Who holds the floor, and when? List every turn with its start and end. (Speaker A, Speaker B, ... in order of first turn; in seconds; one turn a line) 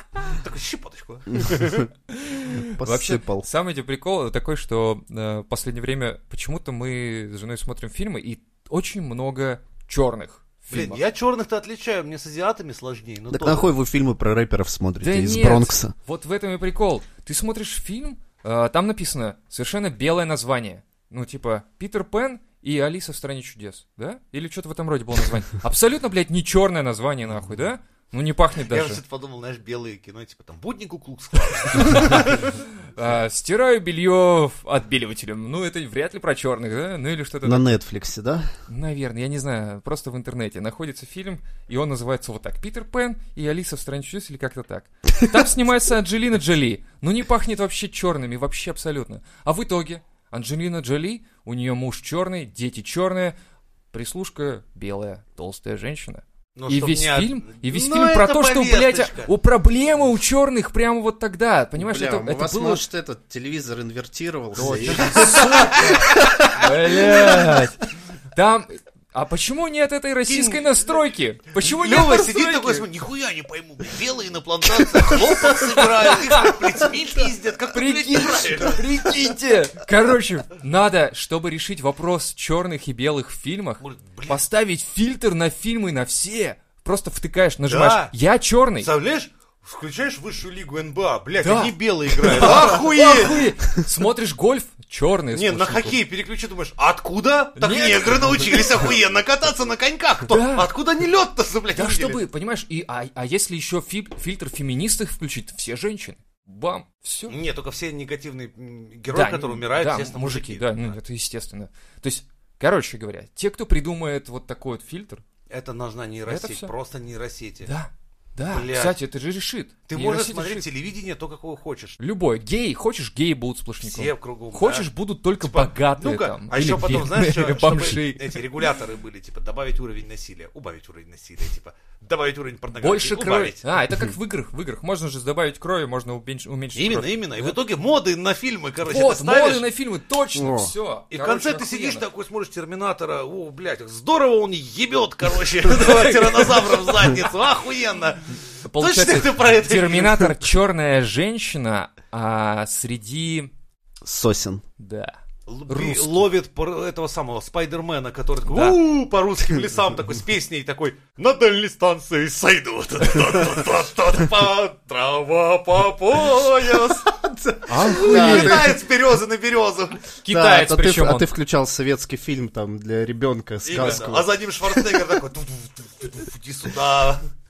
Speaker A: 0.2-1.9
Speaker B: 1.3-1.9
Speaker C: 2.1-11.0
Speaker B: 2.6-3.5
Speaker A: 10.7-13.7
Speaker B: 13.3-15.9
Speaker C: 15.0-29.0
Speaker A: 28.7-32.6
Speaker C: 31.7-37.8
Speaker B: 37.4-38.5
Speaker C: 38.7-53.3
Speaker C: 53.9-62.8
Speaker A: 56.5-59.3
Speaker B: 61.8-67.7
Speaker C: 64.5-67.8
Speaker A: 64.6-66.1
Speaker C: 68.3-72.8
Speaker A: 70.3-70.9
Speaker A: 71.6-79.2
Speaker C: 75.1-76.8
Speaker C: 77.7-88.9
Speaker A: 83.8-84.4
Speaker A: 87.7-88.1
Speaker A: 88.8-93.5
Speaker C: 91.4-96.0
Speaker A: 95.3-102.2
Speaker C: 97.6-98.8
Speaker C: 100.3-100.7
Speaker C: 101.7-107.3
Speaker A: 107.3-110.9
Speaker C: 109.1-115.2
Speaker A: 115.5-117.7
Speaker C: 116.3-116.7
Speaker C: 117.6-120.7
Speaker A: 118.5-119.0
Speaker A: 119.9-122.0
Speaker C: 122.0-128.5
Speaker A: 123.8-124.9
Speaker A: 125.4-133.7
Speaker C: 132.8-137.6
Speaker A: 136.8-139.6
Speaker C: 138.8-142.0
Speaker B: 140.3-140.7
Speaker A: 141.1-150.3
Speaker C: 145.7-147.1
Speaker C: 148.7-153.5
Speaker B: 154.0-154.6
Speaker C: 154.8-155.1
Speaker A: 155.5-167.1
Speaker C: 155.7-156.2
Speaker C: 158.4-158.8
Speaker B: 167.1-168.8
Speaker C: 167.7-168.8
Speaker A: 167.9-170.0
Speaker C: 170.2-171.3
Speaker B: 170.3-175.1
Speaker A: 173.6-177.3
Speaker C: 173.7-174.0